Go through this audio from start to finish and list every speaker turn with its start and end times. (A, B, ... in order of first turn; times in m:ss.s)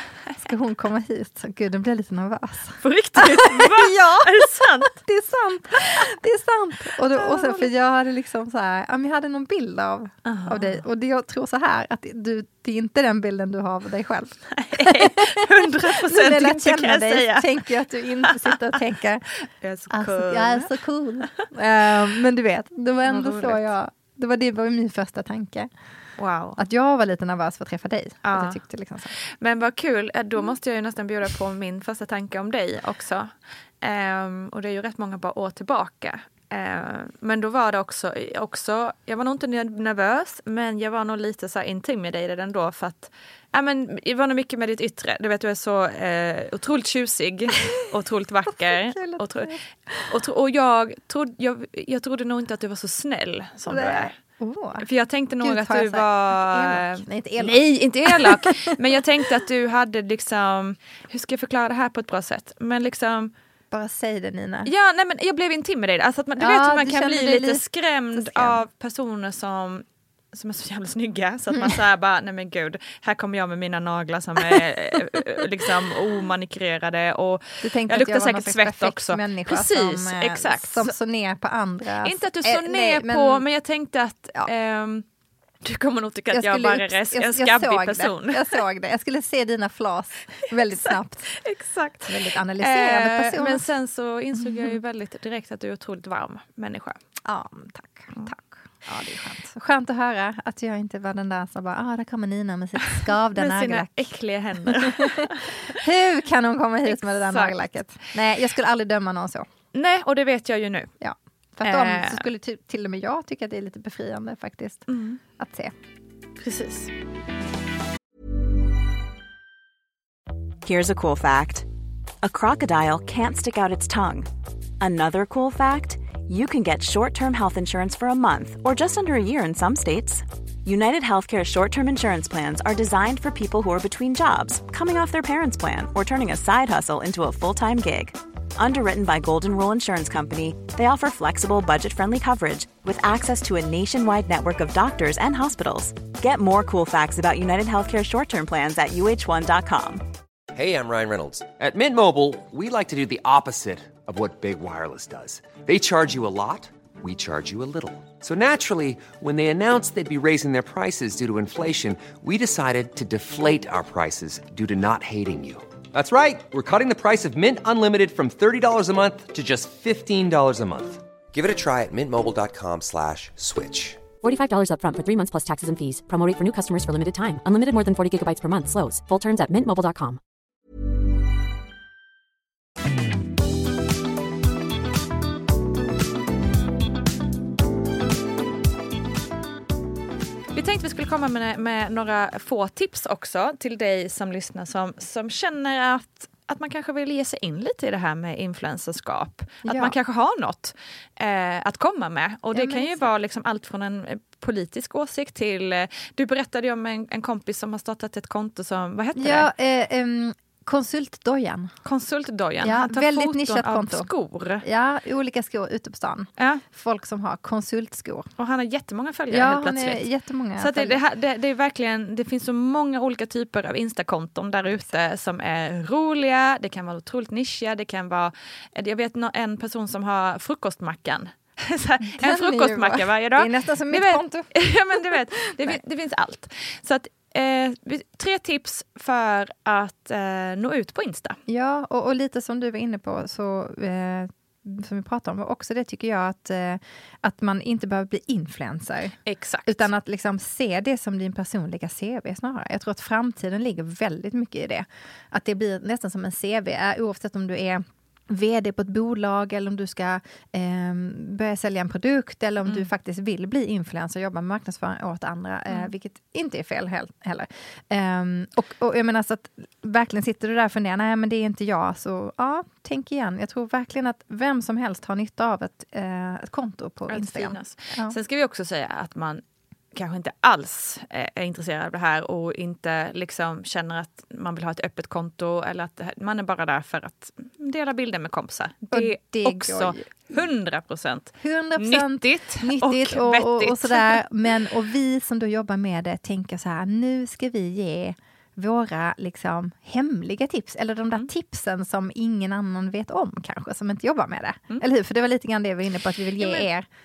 0:00.4-0:19.3 A
0:02.8-0:05.0 B
0:07.1-0:07.7 B
0:10.2-0:10.8 B
0:14.5-0:17.6 B
0:18.2-0:18.8 B
0:19.6-0:21.4 B
0:19.9-0:25.7 A
0:23.0-0:23.7 B
0:26.2-0:26.6 B
0:26.6-0:29.1 A
0:28.2-0:33.3 B
0:33.8-0:49.5 B
0:48.6-0:50.2 A
0:50.1-0:54.1 B
0:53.7-0:54.8 A
0:54.8-1:03.3 B
0:55.4-0:58.7 A
1:03.7-1:04.7 A
1:04.7-1:20.9 B
1:06.4-1:08.6 A
1:17.6-1:23.4 A
1:22.0-1:25.0 B
1:25.6-1:28.6 B
1:26.3-1:31.3 A
1:30.8-1:37.0 B
1:32.1-1:33.7 A
1:34.4-1:34.7 A
1:37.2-1:44.1 A
1:43.4-1:45.8 B
1:44.7-1:49.5 A
1:46.9-1:47.7 B
1:49.7-1:50.9 B
1:51.0-1:54.9 A
1:51.6-1:52.3 B
1:54.9-1:55.2 B
1:55.4-1:55.7 A
1:56.4-1:56.9 B
2:00.6-2:01.7 C
2:02.2-2:04.3 C
2:04.8-2:30.0 C
2:30.5-2:54.0 D
2:54.2-3:00.2 E
3:10.5-3:29.5 B
3:19.6-3:20.0 A
3:22.5-3:23.1 A
3:29.2-3:31.8 A
3:31.8-3:34.6 B
3:32.6-3:34.1 A
3:34.6-3:38.3 A
3:36.4-3:36.6 B
3:38.4-3:40.1 B
3:39.3-3:41.0 A
3:40.6-4:01.4 B
3:52.0-3:55.8 A
4:01.5-4:38.2 A
4:09.3-4:09.9 B
4:37.1-4:39.4 B
4:39.9-4:54.2 B
4:48.9-4:50.2 A
4:51.4-5:06.9 A
5:06.4-5:06.7 B